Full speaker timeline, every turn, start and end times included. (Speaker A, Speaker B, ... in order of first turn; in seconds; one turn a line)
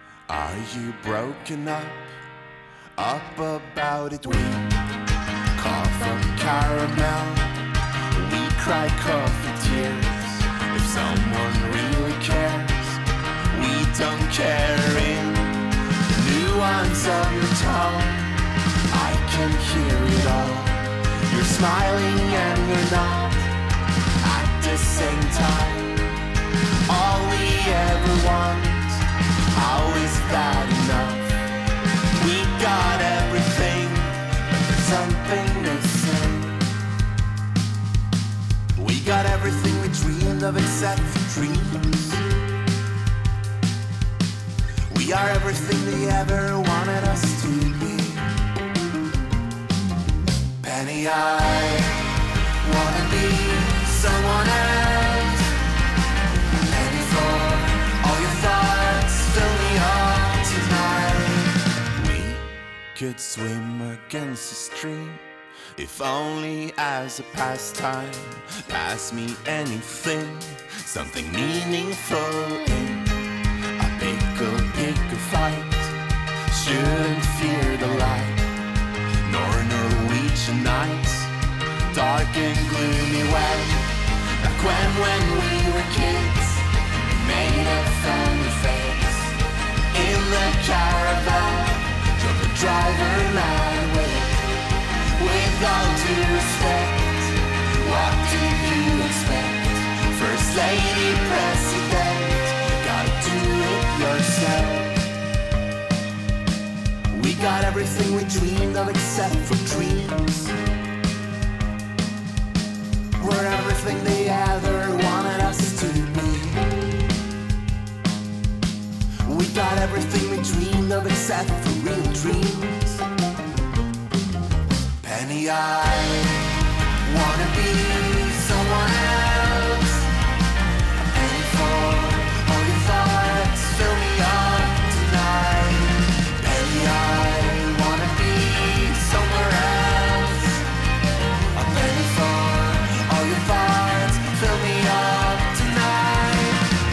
Speaker A: 0.3-2.2
Speaker A: 3.0-4.8
Speaker A: 5.6-7.6
Speaker A: 8.2-23.5
Speaker A: 24.2-26.2
Speaker A: 26.9-31.4
Speaker A: 32.1-36.7
Speaker A: 38.8-42.2
Speaker A: 44.9-48.4
Speaker A: 50.6-52.0
Speaker A: 52.6-55.5
Speaker A: 56.7-65.2
Speaker A: 65.8-76.0
Speaker A: 76.5-78.5
Speaker A: 79.2-81.3
Speaker A: 81.9-89.4
Speaker A: 89.9-94.5
Speaker A: 95.2-105.0
Speaker A: 107.1-110.5
Speaker A: 113.2-116.8
Speaker A: 119.2-123.0
Speaker A: 125.0-130.1
Speaker A: 131.1-140.7
Speaker A: 141.6-146.7